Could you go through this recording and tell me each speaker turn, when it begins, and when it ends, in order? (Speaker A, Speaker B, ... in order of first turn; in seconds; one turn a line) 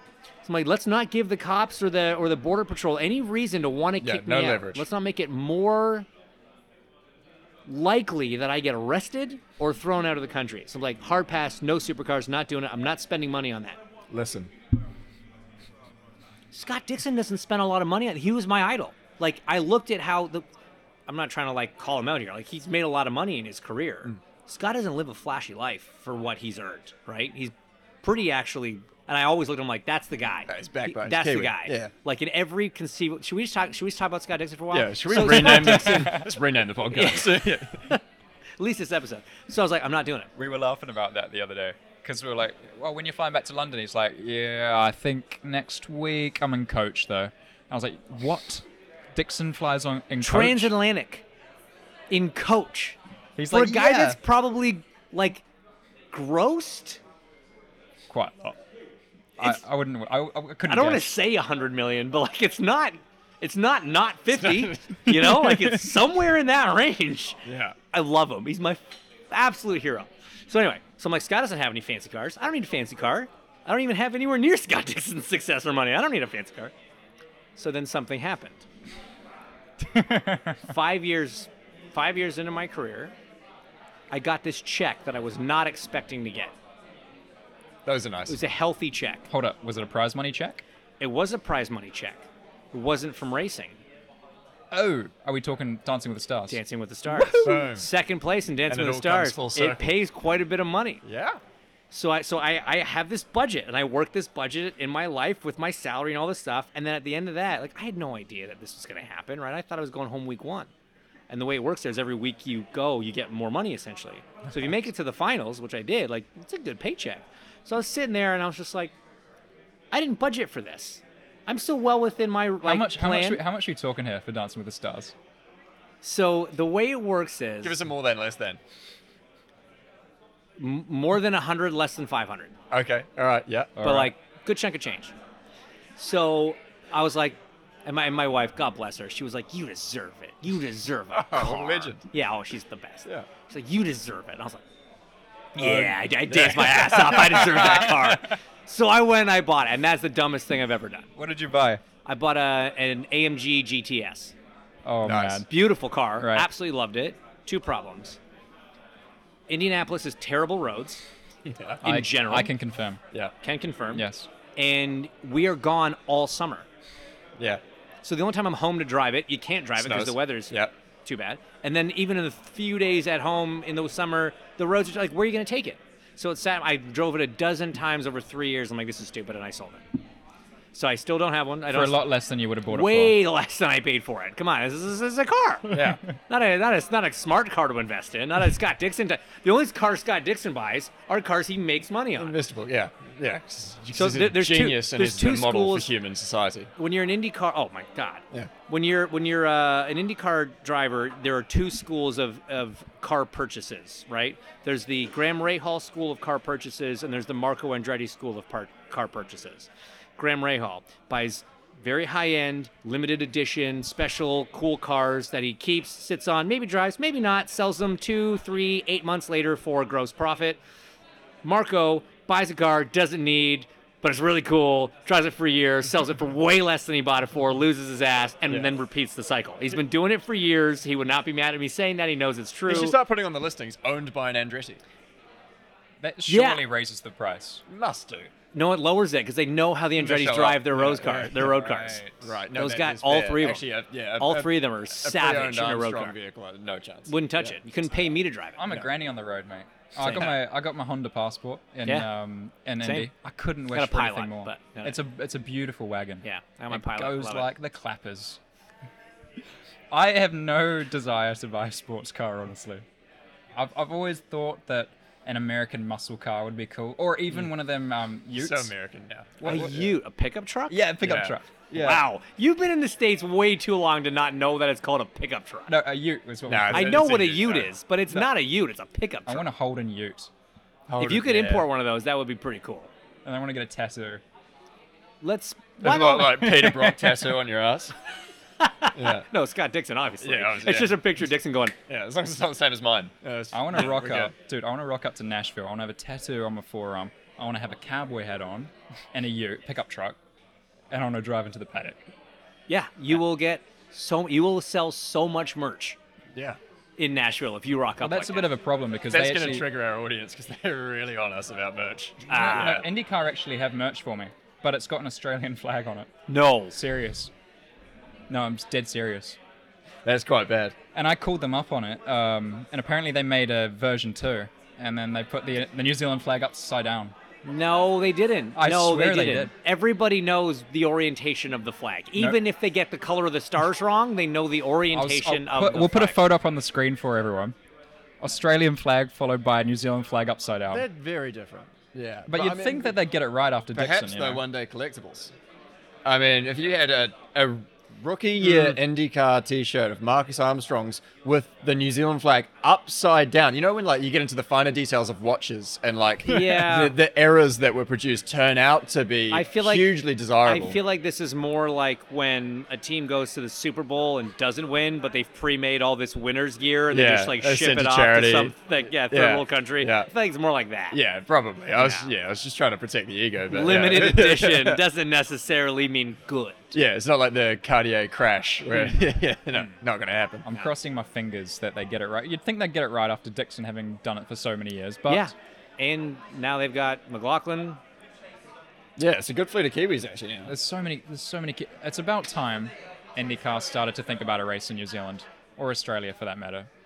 Speaker A: 0.5-6.1
Speaker B: 4.0-4.8
Speaker A: 7.7-13.8
Speaker B: 14.1-14.5
Speaker A: 16.5-20.4
Speaker A: 21.1-36.3
Speaker B: 30.5-31.9
Speaker B: 34.7-37.9
Speaker C: 35.4-36.3
Speaker A: 36.9-38.0
Speaker A: 38.6-40.3
Speaker C: 40.4-50.7
Speaker A: 50.2-51.2
Speaker A: 52.1-53.0
Speaker C: 53.4-54.2
Speaker A: 53.5-55.4
Speaker A: 56.1-57.0
Speaker C: 58.1-58.6
Speaker C: 59.4-61.1
Speaker A: 60.7-76.7
Speaker B: 64.3-65.3
Speaker B: 67.5-67.8
Speaker A: 77.6-78.6
Speaker C: 79.8-80.7
Speaker A: 80.7-83.1
Speaker A: 84.1-86.5
Speaker B: 87.8-88.4
Speaker A: 88.3-89.3
Speaker C: 89.3-90.6
Speaker A: 91.0-93.8
Speaker C: 94.7-97.7
Speaker A: 96.5-101.0
Speaker B: 97.4-97.9
Speaker B: 98.7-99.9
Speaker B: 101.0-101.4
Speaker A: 101.9-110.7
Speaker A: 111.3-118.9
Speaker A: 119.9-123.4
Speaker C: 122.6-125.1
Speaker A: 126.0-127.8
Speaker B: 127.6-128.6
Speaker A: 130.6-132.5
Speaker B: 132.7-133.8
Speaker C: 133.8-134.1
Speaker A: 133.8-135.1
Speaker A: 136.0-144.6
Speaker B: 141.1-142.1
Speaker A: 145.6-151.1
Speaker B: 145.6-147.9
Speaker C: 147.6-148.3
Speaker C: 151.2-151.8
Speaker A: 152.1-154.3
Speaker C: 154.8-155.5
Speaker B: 155.0-155.4
Speaker A: 155.5-158.2
Speaker C: 156.2-156.5
Speaker A: 159.5-161.0
Speaker B: 161.4-161.8
Speaker C: 161.8-163.0
Speaker A: 161.8-162.5
Speaker A: 163.4-164.1
Speaker C: 163.9-164.3
Speaker A: 164.6-166.7
Speaker A: 168.0-179.8
Speaker B: 169.8-170.7
Speaker A: 180.7-182.1
Speaker C: 181.7-183.1
Speaker A: 182.7-192.3
Speaker B: 185.7-186.0
Speaker B: 192.2-196.7
Speaker A: 193.9-195.9
Speaker A: 196.8-220.6
Speaker A: 221.4-233.0
Speaker B: 228.5-228.7
Speaker B: 232.7-234.8
Speaker C: 236.0-237.6
Speaker A: 236.3-236.6
Speaker B: 237.7-238.3
Speaker A: 238.5-243.7
Speaker B: 240.0-247.6
Speaker C: 241.6-242.2
Speaker A: 244.2-246.2
Speaker A: 247.1-248.6
Speaker C: 248.6-258.4
Speaker A: 250.0-250.3
Speaker A: 252.8-253.1
Speaker A: 253.7-255.0
Speaker A: 256.2-257.5
Speaker C: 259.9-262.9
Speaker C: 263.6-268.7
Speaker B: 268.4-269.9
Speaker C: 269.4-269.9
Speaker A: 269.4-270.9
Speaker C: 270.7-272.0
Speaker B: 271.0-272.0
Speaker A: 271.7-275.7
Speaker C: 275.7-277.1
Speaker B: 276.5-277.7
Speaker A: 276.7-279.5
Speaker C: 279.3-280.3
Speaker B: 280.9-281.7
Speaker A: 281.0-282.9
Speaker C: 283.2-284.2
Speaker A: 285.2-286.4
Speaker B: 285.8-287.9
Speaker C: 285.9-287.3
Speaker A: 288.6-291.8
Speaker B: 288.9-289.3
Speaker B: 290.2-291.0
Speaker B: 291.9-294.3
Speaker C: 293.5-300.2
Speaker C: 300.9-302.1
Speaker A: 302.7-306.0
Speaker A: 307.0-308.5
Speaker C: 308.0-309.7
Speaker B: 309.1-312.9
Speaker A: 312.3-312.8
Speaker C: 312.3-316.1
Speaker A: 316.3-316.8
Speaker C: 316.7-317.3
Speaker C: 318.3-319.4
Speaker B: 320.1-320.8
Speaker C: 320.9-327.1
Speaker A: 327.4-336.2
Speaker C: 328.6-329.5
Speaker C: 334.9-337.6
Speaker C: 338.2-340.9
Speaker B: 340.7-342.9
Speaker C: 342.3-344.4
Speaker B: 343.7-345.3
Speaker B: 346.1-360.8
Speaker A: 348.4-348.8
Speaker A: 356.3-356.9
Speaker A: 359.3-359.9
Speaker A: 360.4-371.0
Speaker B: 366.9-368.6
Speaker B: 369.1-370.1
Speaker B: 370.9-374.8
Speaker A: 371.8-372.1
Speaker A: 373.5-376.8
Speaker B: 376.7-380.5
Speaker C: 380.4-385.3
Speaker A: 385.1-387.8
Speaker B: 389.0-390.5
Speaker C: 390.5-396.7